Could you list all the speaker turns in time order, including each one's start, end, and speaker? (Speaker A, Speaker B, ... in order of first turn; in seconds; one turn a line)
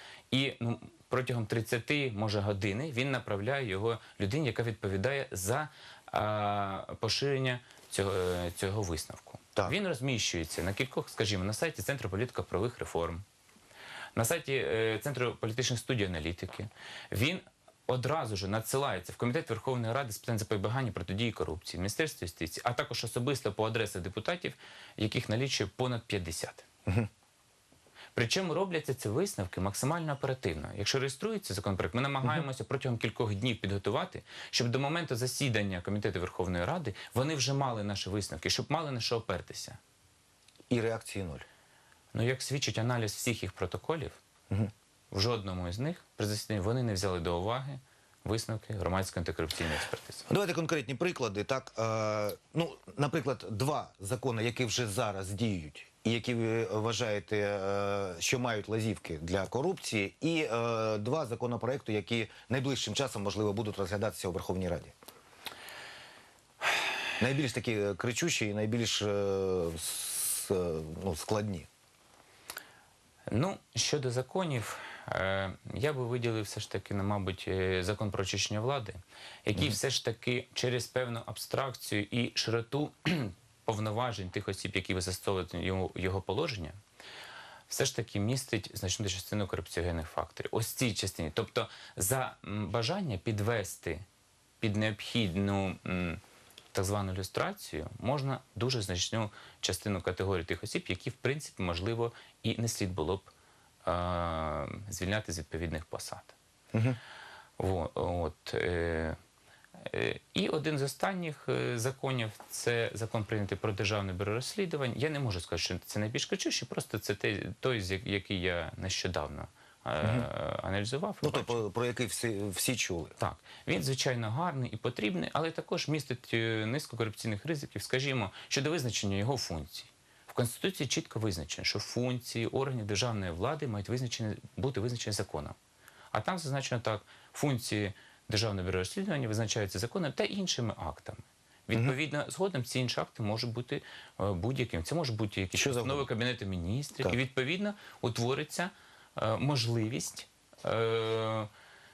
Speaker A: 0.3-13.2
Speaker A: 14.2-26.6
Speaker A: 28.1-39.8
Speaker B: 40.7-41.4
Speaker A: 42.1-44.2
Speaker A: 45.1-50.2
Speaker B: 50.3-64.9
Speaker B: 67.2-71.7
Speaker A: 73.3-86.8
Speaker A: 87.7-94.0
Speaker A: 94.6-96.2
Speaker A: 96.7-103.3
Speaker A: 103.8-106.3
Speaker B: 106.7-107.0
Speaker A: 107.6-109.2
Speaker A: 109.8-121.6
Speaker B: 120.0-120.3
Speaker B: 121.2-123.2
Speaker A: 123.2-135.6
Speaker A: 136.1-151.5
Speaker B: 145.5-146.1